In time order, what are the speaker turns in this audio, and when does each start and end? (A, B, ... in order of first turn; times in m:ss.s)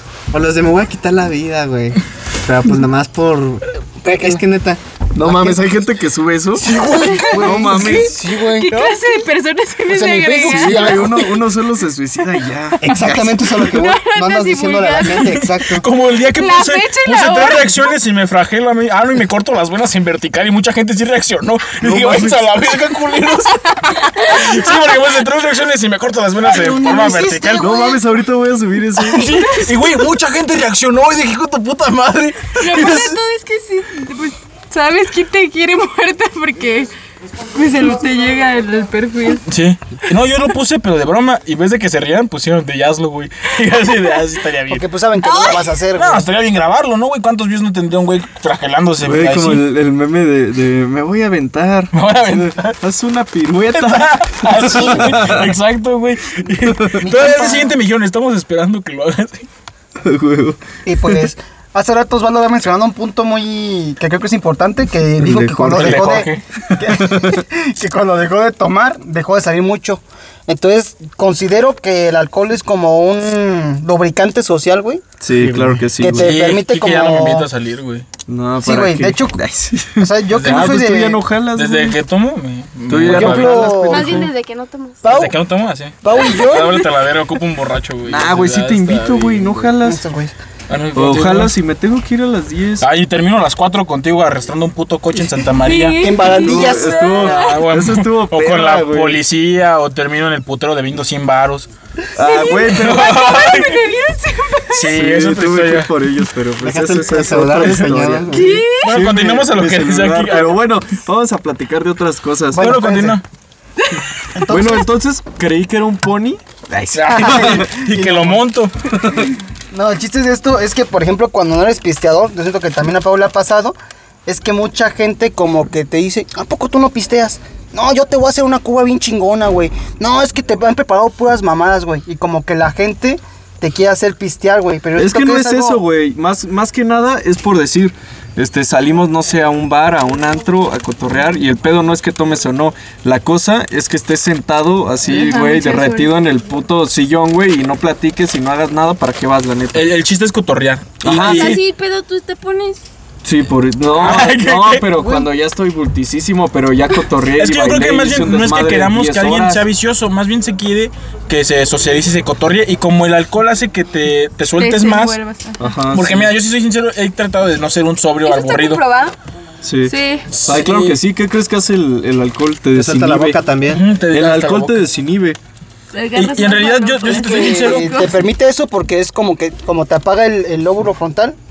0:00.3-0:05.6 A
0:04.1-0:04.4 B
0:05.2-0:06.8 C
0:06.6-0:09.0 B
0:07.0-0:07.3 D
0:07.3-0:08.1 A
0:07.4-0:08.1 C
0:08.4-0:11.3 D
0:09.9-0:11.3 B
0:10.4-0:12.9 C
0:12.8-0:15.9 A
0:12.8-0:14.1 B
0:12.9-0:15.3 D
0:15.2-0:27.8 E
0:16.2-0:17.8 D
0:21.8-0:22.6 C
0:26.5-0:27.7 B
0:27.6-0:29.3 C
0:29.1-0:33.1 E
0:29.1-0:29.6 D
0:32.6-0:36.9 D
0:37.5-0:39.4 D
0:39.4-0:44.8 E
0:44.7-0:46.2 B
0:45.2-0:45.6 D
0:45.9-0:49.6 E
0:49.0-0:55.6 C
0:51.9-0:52.8 E
0:53.7-0:59.5 E
0:54.7-0:55.3 B
0:57.0-0:57.7 B
1:00.0-1:01.3 C
1:00.9-1:15.0 B
1:05.2-1:06.2 C
1:05.2-1:05.7 A
1:05.8-1:06.8 E
1:06.9-1:07.4 C
1:15.2-1:16.3 C
1:15.4-1:15.8 A
1:16.0-1:17.5 B
1:16.1-1:18.0 E
1:18.3-1:22.0 C
1:18.6-1:19.4 B
1:19.9-1:21.2 B
1:20.3-1:20.8 E
1:21.6-1:24.3 E
1:22.9-1:24.3 C
1:23.0-1:24.2 B
1:23.6-1:25.0 F
1:25.0-1:25.4 B
1:25.0-1:29.6 E
1:26.0-1:26.9 B
1:28.0-1:30.0 C
1:29.8-1:30.3 B
1:30.7-1:31.6 E
1:30.9-1:32.9 C
1:32.8-1:36.1 E
1:35.5-1:37.6 D
1:36.0-1:37.1 B
1:36.4-1:39.2 C
1:37.2-1:41.7 E
1:42.1-1:43.1 C
1:42.2-1:44.8 D
1:42.7-1:43.8 E
1:44.7-1:45.9 E
1:44.8-1:52.8 C
1:46.6-1:48.6 A
1:47.6-1:47.9 E
1:48.3-1:48.9 D
1:48.7-1:50.6 E
1:52.5-1:53.2 B
1:52.6-1:53.2 E
1:54.3-1:54.9 B
1:54.5-1:57.7 C
1:56.9-1:58.7 E
1:57.1-1:58.4 B
1:58.9-1:59.3 C
1:59.7-2:15.8 B
2:14.9-2:29.9 C
2:25.0-2:26.1 D
2:29.7-2:31.6 E
2:31.0-2:31.6 C
2:31.1-2:32.8 F
2:33.2-2:39.6 C
2:33.9-2:34.9 E
2:37.3-2:45.2 E
2:44.6-2:45.6 D
2:45.6-2:46.3 C
2:45.9-2:48.8 E
2:48.2-2:49.2 F
2:49.6-2:53.4 C
2:49.8-2:50.3 D
2:50.3-2:51.0 E
2:52.7-2:53.8 A
2:53.6-2:54.9 E
2:54.1-2:55.4 C
2:55.9-2:58.2 D
2:56.1-2:58.1 E
2:57.1-3:01.4 B